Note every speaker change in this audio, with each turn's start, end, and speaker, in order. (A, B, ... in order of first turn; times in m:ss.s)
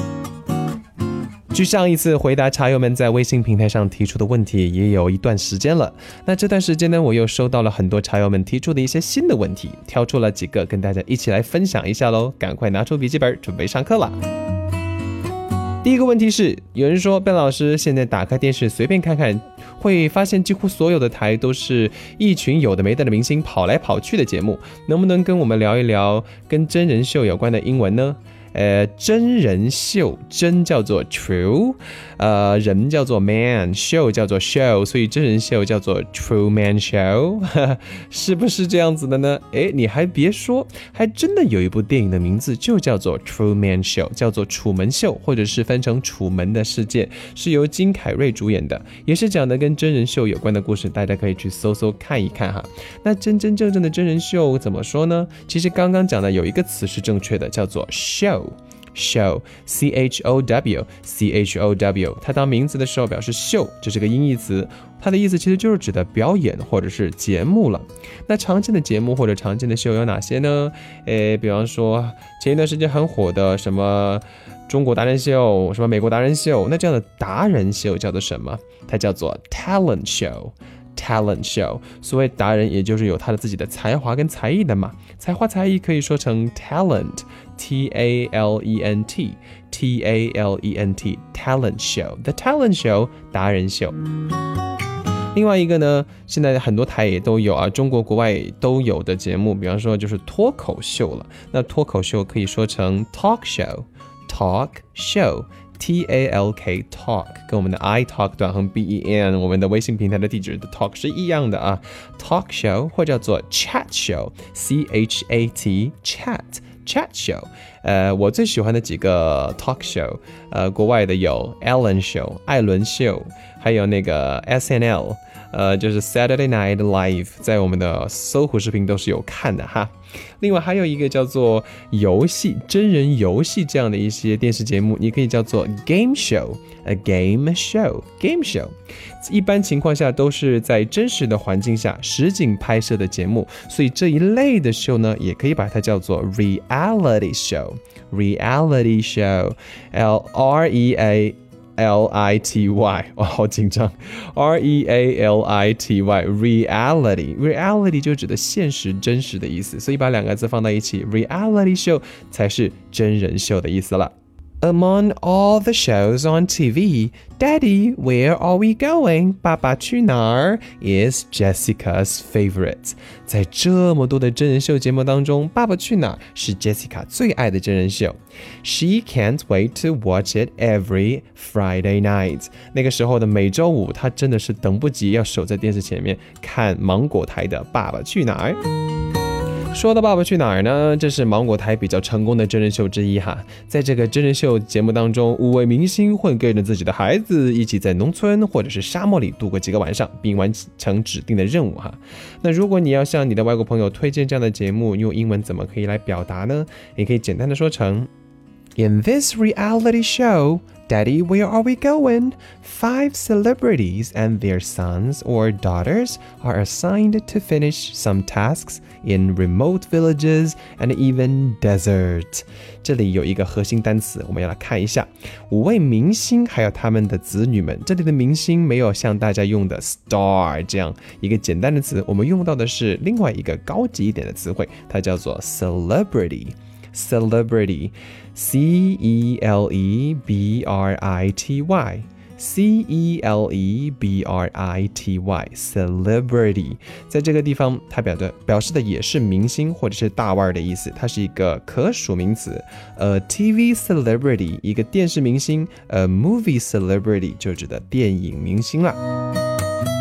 0:01.5-0:14.2 A
0:15.8-1:34.0 A
1:35.3-3:08.6 A
3:09.7-3:28.1 A
3:28.8-4:19.0 A